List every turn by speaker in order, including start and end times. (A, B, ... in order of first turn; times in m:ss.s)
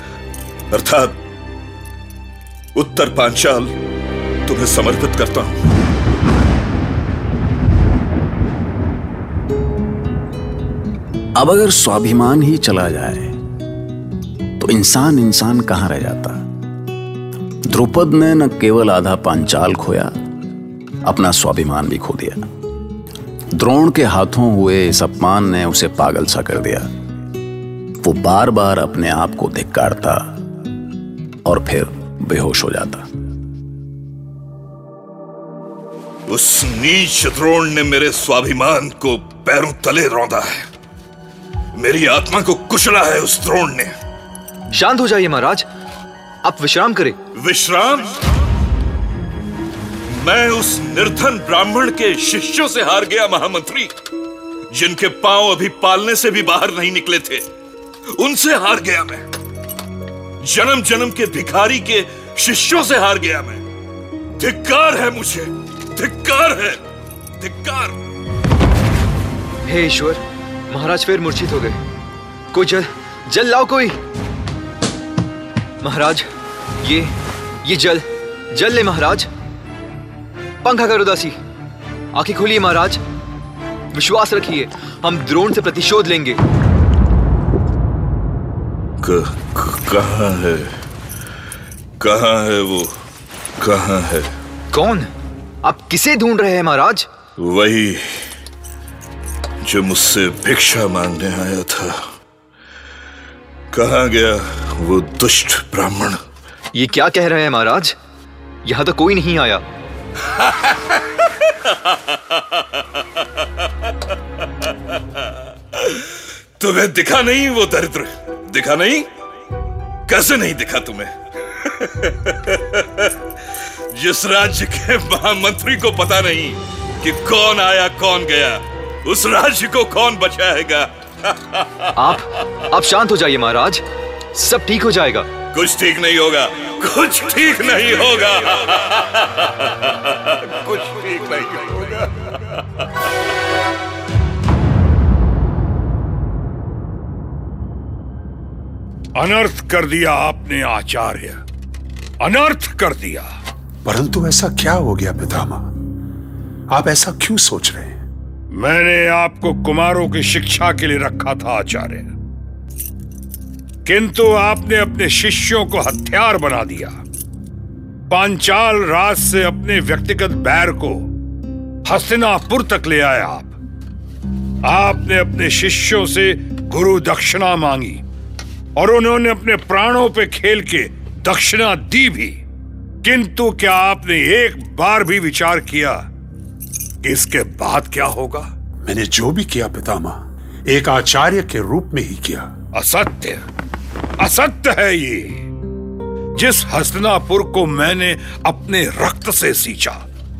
0:00.7-0:01.2 A
0:02.8-0:03.7 A
0:04.5-0:05.6 A
0:11.4-0:13.3 B
0:14.6-0:16.4 B
0:17.7-0:20.1 B
0:21.1-0:22.4 B
0:23.5-0:26.9 B
0:28.0-0:30.3 B
0:31.4-0:33.1 B
0:36.3-0:40.7 A
0:41.8-0:44.0 A
0:44.7-0:45.7 C
0:46.4-0:47.2 C
0:47.4-0:48.2 A
0:50.1-0:53.9 A
0:54.7-0:57.4 A
0:58.2-0:59.2 A
1:00.4-1:03.6 A
1:04.4-1:06.8 A
1:07.4-1:08.0 A
1:09.7-1:11.8 C
1:12.5-1:14.0 C
1:15.8-1:16.3 C
1:16.8-1:19.3 C
1:20.6-1:21.4 C
1:22.2-1:23.0 C
1:23.9-1:26.4 C
1:29.0-1:30.7 A
1:32.0-1:32.9 A
1:33.6-1:34.3 A
1:34.7-1:35.1 C
1:35.6-1:37.1 C
1:37.4-1:38.2 A
1:39.6-1:42.0 A
1:43.7-1:46.2 A
1:46.7-1:48.0 C
1:48.6-1:49.6 C
1:50.4-1:51.0 A
1:51.7-1:52.0 A
1:56.6-1:59.1 A
2:00.1-2:01.1 A
2:01.6-2:03.1 A
2:03.9-2:11.9 A
2:12.0-2:13.8 C
2:14.3-2:15.3 C
2:15.5-2:21.6 A
2:29.2-2:31.4 D
2:32.2-2:33.3 D
2:33.8-2:35.7 E
2:36.7-2:38.0 E
2:38.5-2:42.1 D
2:43.8-2:47.0 D
2:48.1-2:51.1 D
2:51.9-2:53.5 D
2:54.6-2:58.0 D
2:58.8-3:02.4 D
3:03.0-3:06.0 D
3:07.0-3:08.5 D
3:08.8-3:12.5 E
3:12.7-3:13.4 D
3:14.2-3:15.5 D
3:16.4-3:20.0 D